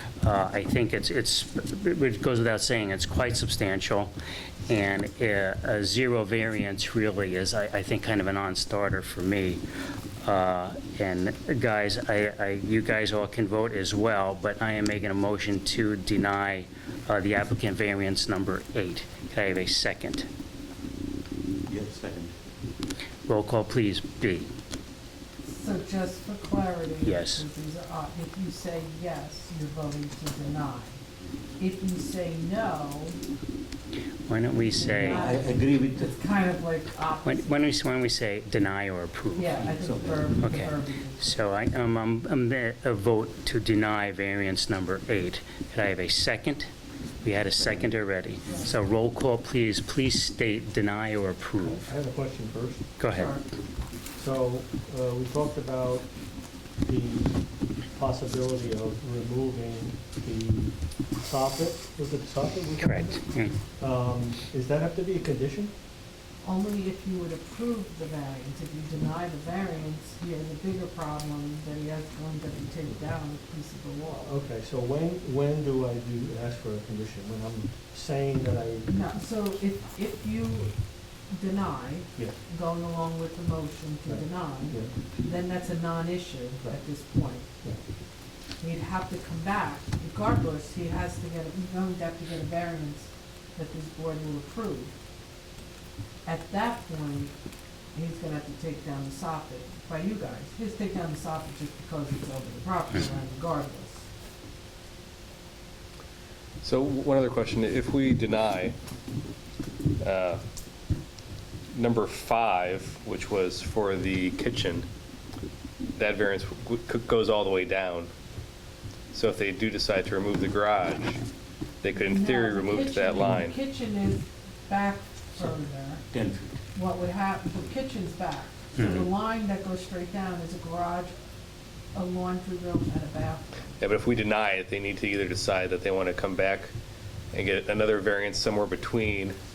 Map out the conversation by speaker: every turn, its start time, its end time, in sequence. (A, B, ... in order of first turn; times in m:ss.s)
0:00.2-0:04.1 A
0:04.7-0:09.6 A
0:10.2-0:20.3 A
0:21.7-0:22.4 B
0:23.3-0:24.5 A
0:25.4-0:31.0 C
0:27.0-0:27.5 A
0:31.6-0:33.2 C
0:34.3-0:35.3 A
0:34.7-0:37.7 C
0:35.0-0:36.2 B
0:37.2-0:39.6 A
0:39.3-0:41.3 C
0:39.5-0:40.4 B
0:40.4-0:46.7 A
0:47.2-0:51.9 A
0:51.6-0:52.9 D
0:53.0-0:53.3 A
0:53.1-0:53.4 C
0:54.1-1:05.8 D
1:02.8-1:03.6 A
1:06.4-1:14.3 C
1:14.1-1:19.0 D
1:18.9-1:28.0 C
1:24.1-1:25.0 D
1:26.6-1:27.9 D
1:28.5-1:35.0 C
1:36.2-1:37.4 C
1:37.9-1:44.1 C
1:46.6-1:48.8 E
1:50.0-1:50.4 E
1:51.7-1:54.9 E
1:56.0-1:58.1 E
1:59.1-2:01.2 E
2:01.8-2:03.6 E
2:02.0-2:06.0 C
2:06.1-2:06.6 B
2:06.7-2:11.1 C
2:08.8-2:09.0 A
2:11.9-2:13.8 C
2:13.8-2:16.7 E
2:17.3-2:19.4 E